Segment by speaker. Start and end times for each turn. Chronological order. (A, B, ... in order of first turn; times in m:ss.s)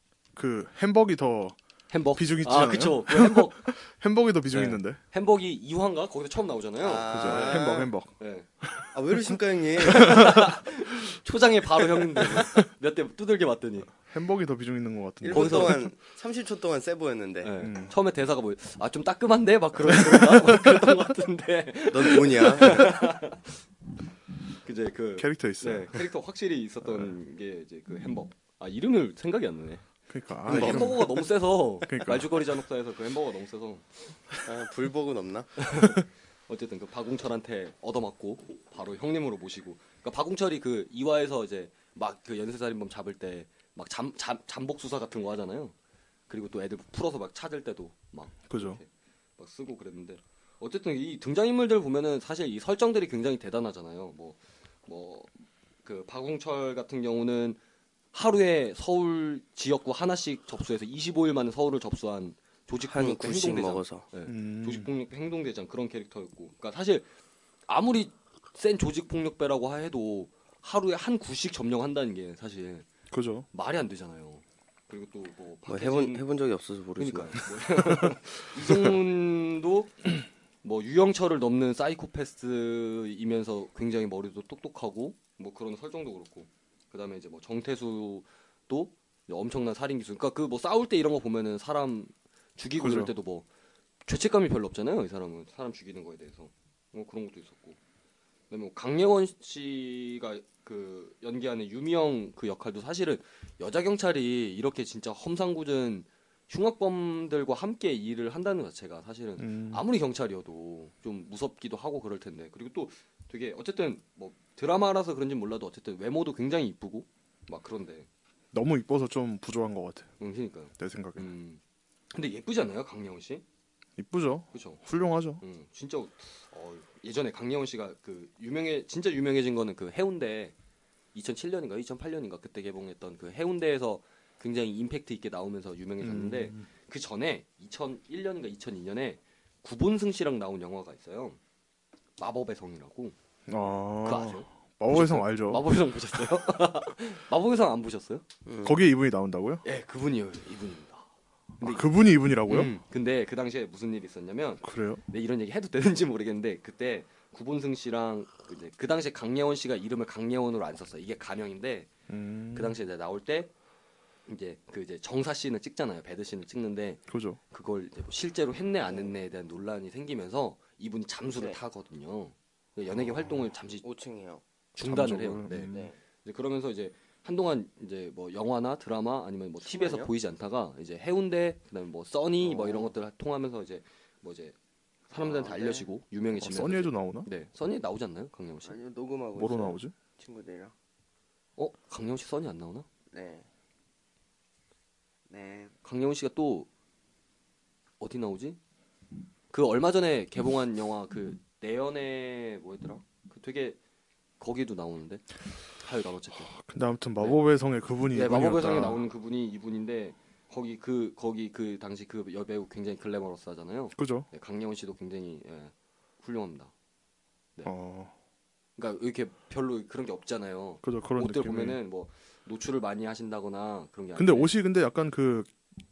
0:00.4-0:01.6 A
0:01.9-0:03.6 B
0:02.2-0:05.0 A
0:04.5-0:08.5 B
0:06.8-0:07.9 C
0:07.1-0:10.5 A
0:08.9-0:10.3 C
0:09.8-0:13.9 B
0:14.1-0:15.9 A
0:15.2-0:17.5 C
0:15.3-0:15.8 B
0:17.4-0:23.5 B
0:17.6-0:17.9 A
0:19.9-0:20.7 A
0:21.9-0:23.0 C
0:24.6-0:29.8 B
0:25.2-0:26.0 A
0:26.8-0:27.1 A
0:30.1-0:31.2 A
0:30.5-0:33.9 B
0:30.5-0:31.0 C
0:31.8-0:32.4 A
0:34.4-0:35.6 C
0:35.6-0:45.8 B
0:46.3-0:57.6 B
0:48.5-0:48.8 A
0:58.1-1:07.1 B
1:02.9-1:04.0 C
1:04.3-1:04.9 A
1:07.7-1:12.9 B
1:13.1-1:13.5 A
1:13.5-1:16.2 B
1:15.7-1:17.5 C
1:17.0-1:20.1 B
1:20.6-1:33.5 B
1:32.8-1:33.1 A
1:34.1-1:37.8 B
1:38.5-1:58.1 B
1:49.4-1:49.8 A
1:58.5-2:00.1 A
2:00.2-2:01.6 B
2:00.8-2:01.3 A
2:02.1-2:03.4 B
2:04.0-2:05.4 A
2:04.5-2:04.8 B
2:05.4-2:10.5 B
2:11.1-2:21.4 B
2:16.0-2:16.7 A
2:22.2-2:23.2 B
2:23.5-2:25.6 A
2:24.0-2:28.2 B
2:28.5-2:28.8 C
2:28.6-2:29.6 A
2:29.6-2:31.1 B
2:31.6-2:31.9 B
2:31.6-2:32.7 A
2:32.5-2:41.9 B
2:34.6-2:35.0 A
2:42.1-2:42.8 A
2:42.5-2:43.5 B
2:44.3-2:53.8 B
2:47.1-2:47.4 A
2:48.9-2:49.1 C
2:51.3-2:51.6 C
2:53.8-2:54.4 C
2:54.8-2:55.7 B
2:54.8-2:55.9 A
2:55.7-2:56.0 C
2:56.2-3:04.6 B
2:59.6-3:00.1 C
3:02.4-3:02.9 C
3:05.1-3:08.8 B
3:05.2-3:05.9 C
3:06.4-3:07.3 A
3:08.7-3:10.7 C
3:09.4-3:09.9 A
3:11.6-3:12.9 B
3:13.1-3:13.4 C
3:15.3-3:15.7 C
3:15.8-3:16.7 B
3:18.0-3:18.6 B
3:19.5-3:23.8 B
3:24.4-3:26.5 B
3:26.5-3:29.0 A
3:28.1-3:36.7 B
3:34.0-3:34.3 A
3:37.6-3:38.1 A
3:38.8-3:44.5 B
3:40.8-3:41.8 A
3:44.2-3:45.5 A